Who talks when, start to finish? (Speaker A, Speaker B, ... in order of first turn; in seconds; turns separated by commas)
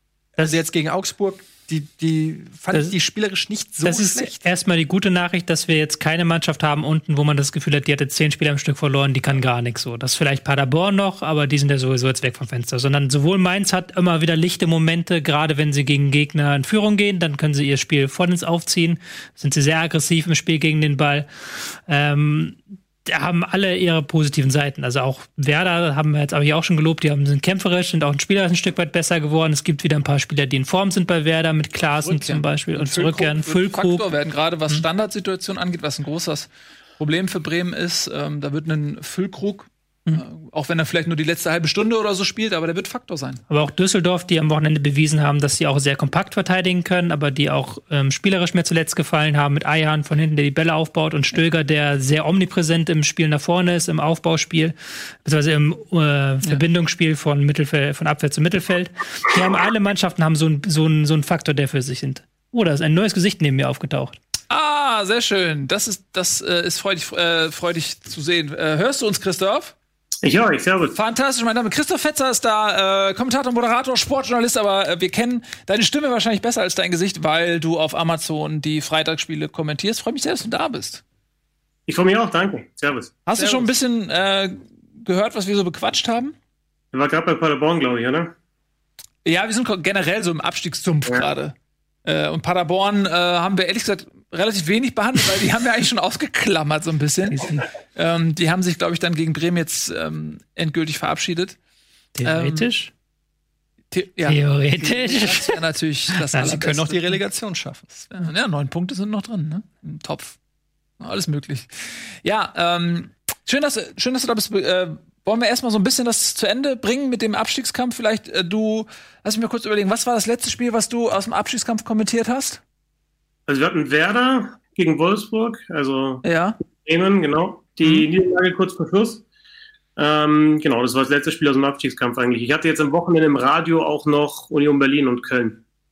Speaker A: 0.4-4.4, Speaker B: 3.8-34.1, Speaker C: 32.0-36.5, Speaker C: 37.0-43.4, Speaker B: 43.5-64.2, Speaker C: 64.5-69.8, Speaker D: 70.2-70.9, Speaker C: 70.9-81.0, Speaker D: 81.9-83.7, Speaker C: 83.3-86.3, Speaker D: 86.9-88.3, Speaker C: 89.2-91.5, Speaker C: 92.0-101.6, Speaker B: 97.3-97.6, Speaker B: 102.2-102.9, Speaker C: 102.2-102.7, Speaker C: 103.9-107.1, Speaker B: 104.3-105.6, Speaker A: 106.4-108.1, Speaker C: 108.1-110.4, Speaker C: 111.0-122.6, Speaker D: 123.5-126.2, Speaker C: 126.2-126.6, Speaker D: 126.8-129.2, Speaker D: 130.0-135.6